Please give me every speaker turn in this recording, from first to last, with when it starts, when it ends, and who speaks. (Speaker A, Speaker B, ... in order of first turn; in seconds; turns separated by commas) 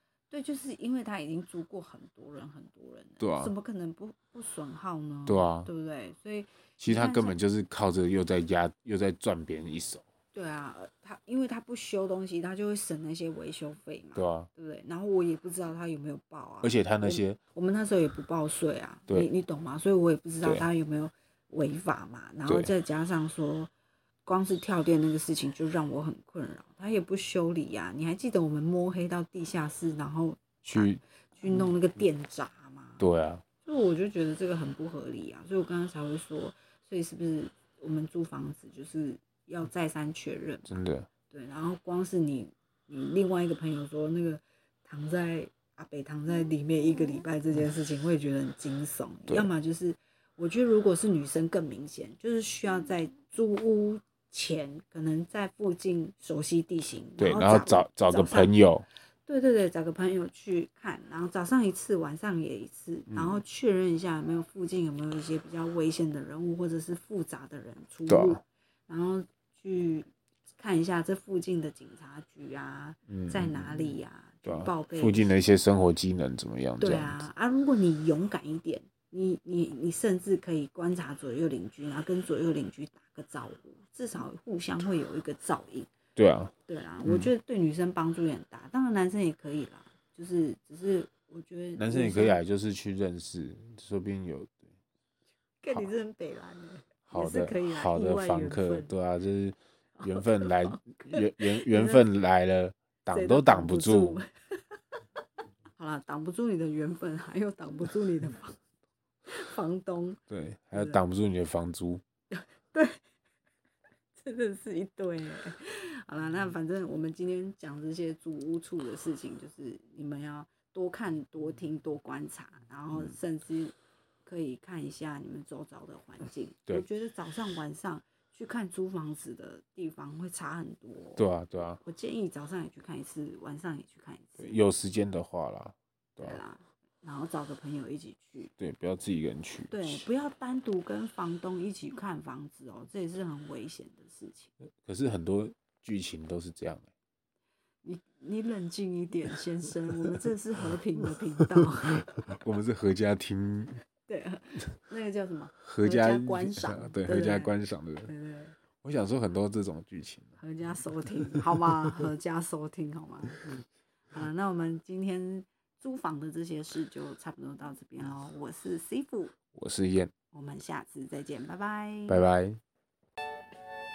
Speaker A: 0.3-7.4, Speaker B: 3.2-3.5, Speaker B: 5.2-5.7, Speaker B: 6.8-10.1, Speaker A: 10.3-23.7, Speaker B: 14.1-14.5, Speaker B: 16.6-17.4, Speaker B: 22.4-22.7, Speaker A: 24.2-33.0, Speaker B: 30.6-31.7, Speaker B: 33.0-33.4, Speaker A: 33.6-40.8, Speaker B: 40.6-41.1, Speaker A: 41.3-58.5, Speaker B: 57.2-58.9, Speaker A: 59.2-75.3, Speaker B: 63.1-63.4, Speaker B: 68.1-68.4, Speaker B: 73.1-77.3, Speaker A: 76.8-85.9, Speaker B: 86.2-86.5, Speaker A: 86.7-92.4, Speaker B: 87.0-87.3, Speaker B: 91.8-94.7, Speaker A: 95.6-98.9, Speaker B: 97.1-104.2, Speaker A: 100.0-102.1, Speaker A: 103.1-104.8, Speaker A: 105.4-108.6, Speaker A: 109.2-110.2, Speaker B: 110.3-112.0, Speaker A: 110.7-111.0, Speaker A: 112.3-113.0, Speaker A: 114.2-131.2, Speaker B: 122.9-123.2, Speaker B: 131.2-131.8, Speaker A: 131.8-134.6, Speaker B: 134.4-136.4, Speaker A: 136.2-138.5, Speaker B: 138.6-140.1, Speaker A: 139.7-144.5, Speaker B: 144.6-146.9, Speaker A: 147.8-152.4, Speaker B: 151.6-153.8, Speaker A: 154.1-157.5, Speaker B: 155.6-158.1, Speaker A: 158.1-158.6, Speaker B: 158.8-160.4, Speaker A: 160.4-163.4, Speaker A: 164.1-169.3, Speaker B: 169.5-170.1, Speaker A: 170.3-172.2, Speaker B: 172.1-172.6